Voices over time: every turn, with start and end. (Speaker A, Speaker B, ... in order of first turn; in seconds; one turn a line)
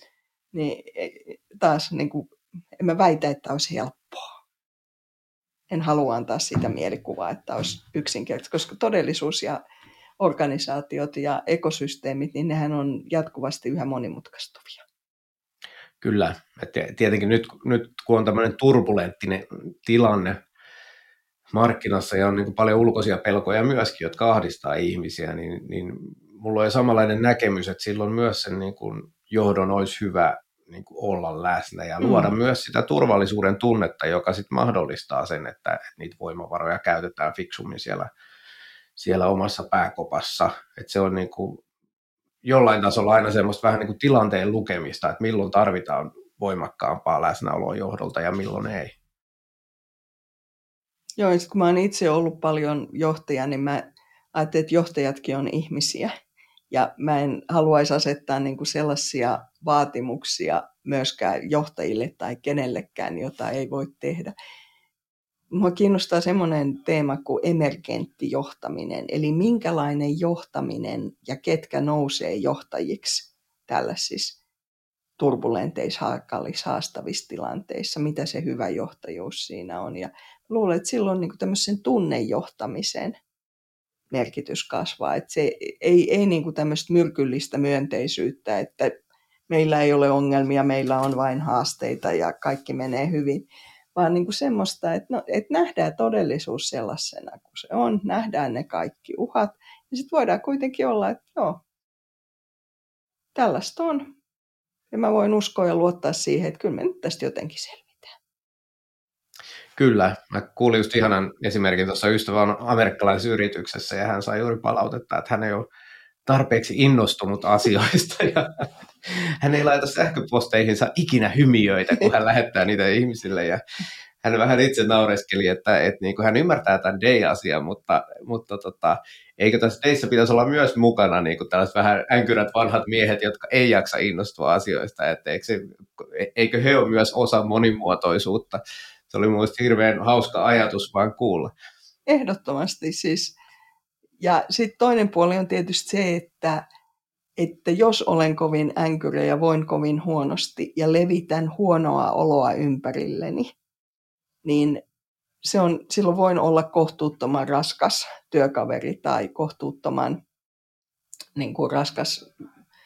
Speaker A: 0.5-4.3
Speaker A: 5.7-9.6
Speaker A: 10.2-14.8
Speaker B: 16.0-20.4
Speaker B: 21.5-38.1
Speaker A: 32.0-32.3
Speaker B: 39.0-41.6
Speaker B: 42.5-48.9
Speaker A: 51.2-56.1
Speaker A: 56.7-64.3
Speaker A: 65.5-74.4
Speaker A: 75.2-83.2
Speaker A: 84.1-88.9
Speaker A: 89.5-101.6
Speaker A: 103.3-104.1
Speaker A: 104.9-108.1
Speaker B: 109.8-115.7
Speaker B: 116.3-123.6
Speaker B: 124.2-141.5
Speaker A: 142.1-143.4
Speaker A: 144.2-146.6
Speaker A: 147.4-153.5
Speaker A: 154.4-154.8
Speaker A: 155.4-160.2
Speaker A: 161.4-162.2